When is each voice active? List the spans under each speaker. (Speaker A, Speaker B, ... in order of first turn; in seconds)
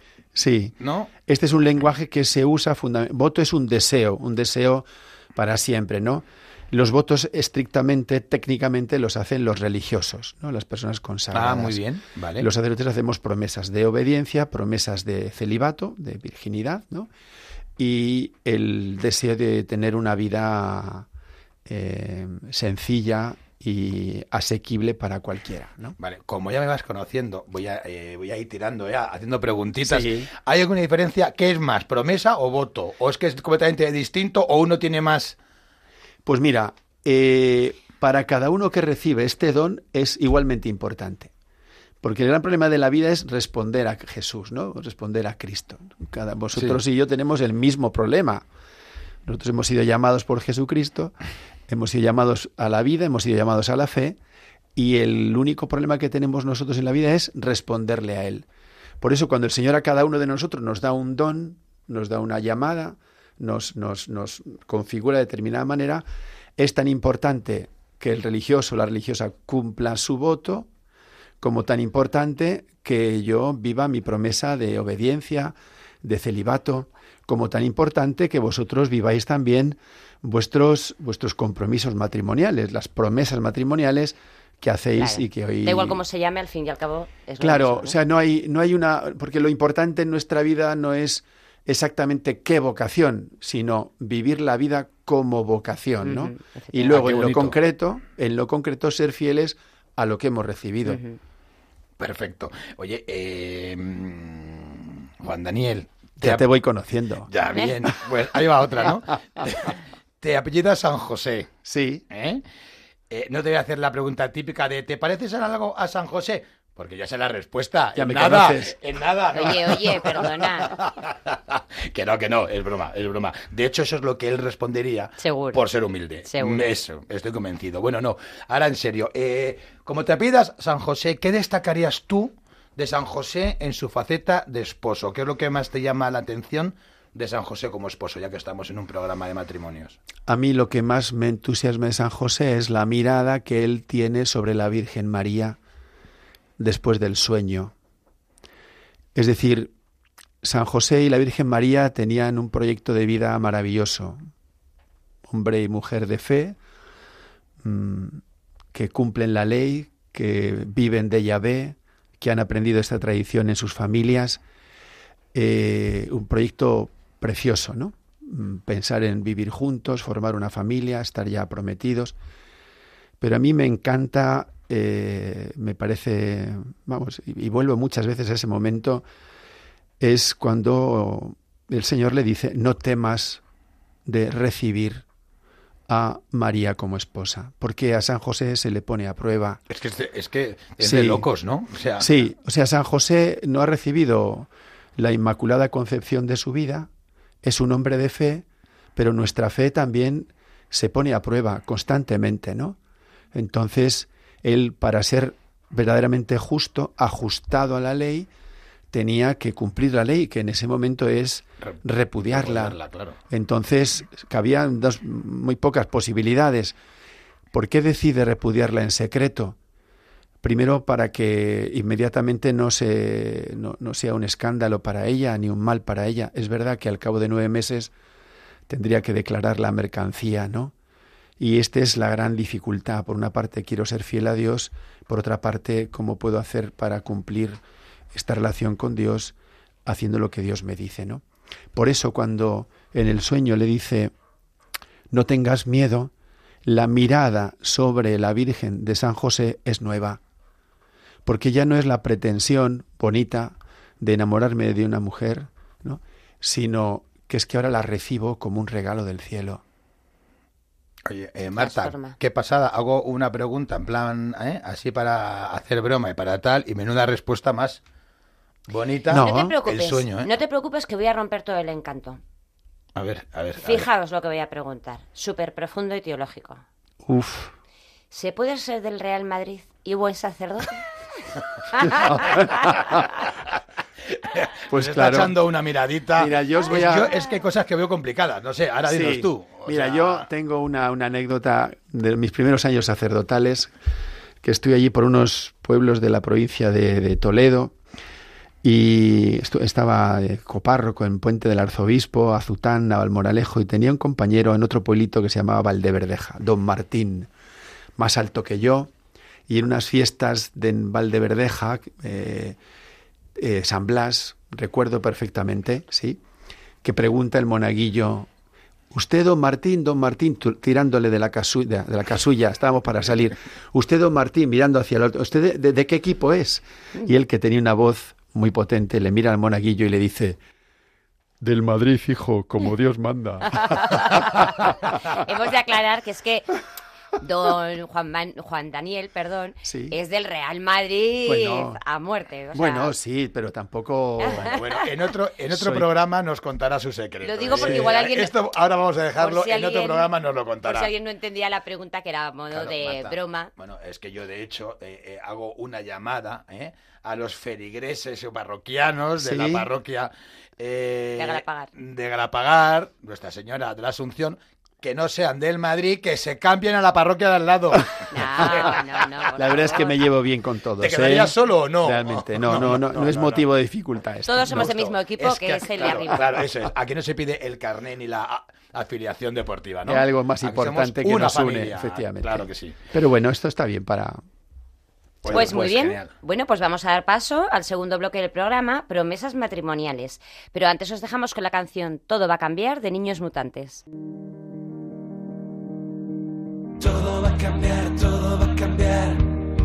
Speaker A: 0.3-0.8, 1.2-11.8, 12.4-17.1, 17.8-21.1, 21.6-26.0, 29.8-30.3, 36.2-41.3, 42.0-48.5, 49.2-51.1, 51.7-54.2, 54.8-58.5, 59.0-66.0, 66.6-70.7, 71.4-86.0, 87.4-101.0, 106.2-107.3, 111.6-112.0, 118.0-118.8, 140.2-145.6, 146.6-147.7, 149.2-149.7, 150.4-154.2, 155.3-156.6, 157.6-158.2, 158.7-164.4, 165.3-172.2, 173.2-179.0, 180.0-183.4, 184.1-185.0, 185.9-189.6, 190.8-191.2, 192.0-196.9, 197.4-202.8, 203.3-208.3, 208.9-212.8, 213.3-216.8, 217.5-219.6, 220.4-227.9, 228.7-230.7, 231.4-237.6, 238.1-239.3, 239.9-241.2, 241.8-244.1, 245.1-246.1, 246.7-250.2, 251.2-259.6, 269.1-269.5, 277.0-277.5, 282.0-282.5, 284.7-285.3, 286.2-287.1, 288.9-293.7, 294.4-297.8, 298.6-307.3, 308.0-308.9, 309.5-312.6, 313.4-316.2, 316.8-318.3, 318.9-330.4, 331.4-334.4, 339.6-340.0, 341.2-341.8, 342.5-344.5, 345.5-345.9, 347.5-347.9, 359.2-359.7, 369.4-374.8, 379.9-384.2
Speaker B: 0.8-1.1, 11.3-12.5, 26.0-35.4, 96.9-97.6, 102.0-106.4, 107.3-111.5, 112.1-112.4, 113.1-140.0, 189.7-192.1, 212.3-213.2, 261.1-267.8, 268.7-270.3, 273.0-273.9, 284.1-290.2, 344.4-350.9, 352.5-369.0, 370.8-373.4, 374.5-382.8, 385.2-386.1
Speaker C: 85.0-88.0, 96.0-96.9, 100.9-101.2, 119.3-120.8, 125.2-125.6, 126.2-126.7, 261.6-262.2, 269.2-272.2, 273.6-276.6, 278.1-280.8, 281.7-282.8, 333.6-336.5, 337.2-342.9, 347.2-348.3, 349.2-350.1, 350.6-353.5, 361.2-361.7, 368.1-369.9, 374.2-376.2, 385.3-393.8
Speaker D: 396.8-399.3